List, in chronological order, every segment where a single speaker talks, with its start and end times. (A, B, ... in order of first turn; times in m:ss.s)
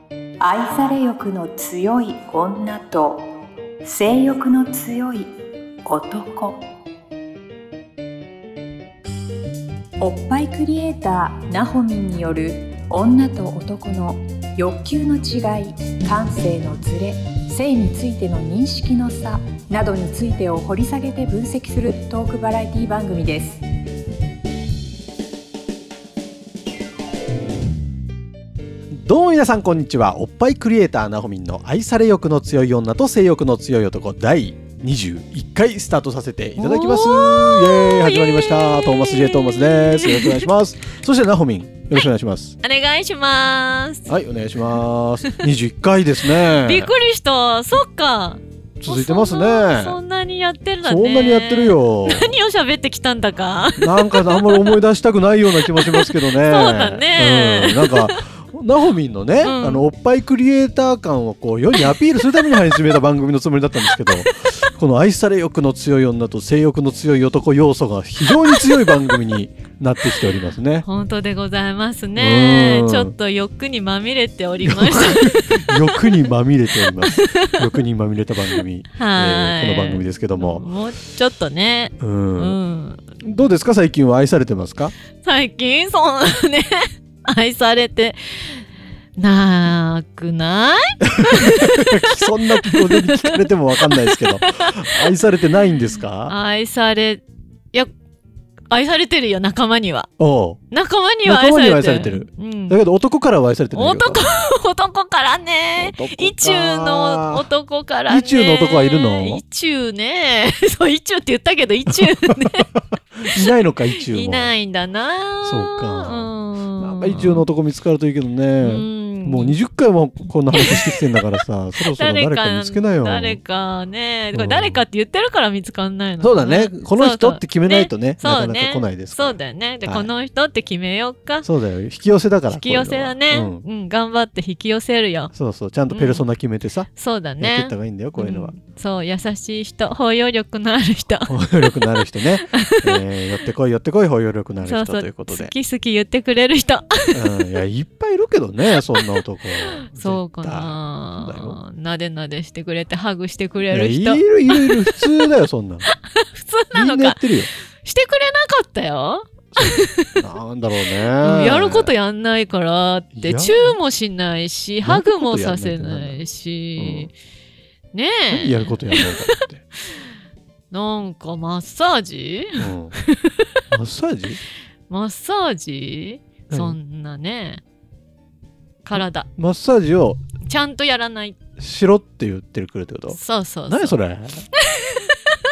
0:00.4-0:03.3 A
0:03.8-0:05.3 A
0:05.8-0:06.6 A
0:10.0-0:23.6 A
0:28.9-0:42.6 B
0:36.6-0:40.5 C
0:42.6-0:44.1 C
0:44.1-0:46.9 B
0:46.4-0:54.8 C
0:48.8-0:50.0 B
0:50.8-0:52.3 B
0:53.8-1:10.8 B
0:55.6-0:58.2 C
0:59.4-0:59.9 C
1:01.7-1:02.9 C
1:03.9-1:04.2 C
1:08.3-1:09.2 C
1:10.8-1:17.6 C
1:12.2-1:13.1 B
1:14.6-1:20.6 B
1:18.5-1:23.0 C
1:22.0-1:22.6 B
1:23.2-1:24.9 B
1:25.2-1:34.9 C
1:31.2-1:36.3 B
1:36.2-1:37.9 C
1:38.7-1:40.1 C
1:40.2-1:40.6 B
1:40.7-1:42.8 C
1:41.2-1:44.3 B
1:43.7-1:52.7 C
1:45.8-1:47.5 B
1:48.1-1:49.4 B
1:51.9-1:52.3 B
1:53.2-1:54.5 B
1:53.2-1:57.4 C
1:55.4-2:03.4 B
1:58.6-1:59.6 C
2:00.5-2:01.2 C
2:01.8-2:11.5 C
2:04.3-2:04.8 B
2:06.2-2:10.1 B
2:11.4-2:13.6 B
2:12.5-2:15.3 C
2:15.3-2:18.6 B
2:15.9-2:16.2 C
2:16.9-2:21.8 C
2:21.3-2:25.5 B
2:22.4-2:23.0 C
2:24.6-2:27.4 C
2:27.1-2:31.6 B
2:29.7-2:35.3 C
2:33.7-2:35.9 B
2:35.9-2:37.2 C
2:36.7-2:37.5 B
2:37.7-2:40.1 C
2:39.5-2:41.9 B
2:41.2-2:47.1 C
2:43.1-2:43.8 B
2:44.8-2:46.2 B
2:46.8-2:47.1 B
2:47.9-2:49.4 C
2:48.3-2:49.6 B
2:50.7-2:53.4 C
2:52.6-2:53.0 B
2:53.7-2:54.4 B
2:54.9-2:57.6 C
2:56.5-2:56.8 B
2:58.8-2:59.3 C
2:58.9-3:00.2 B
3:00.4-3:01.4 C
3:01.6-3:04.5 B
3:03.1-3:04.0 C
3:04.6-3:05.1 C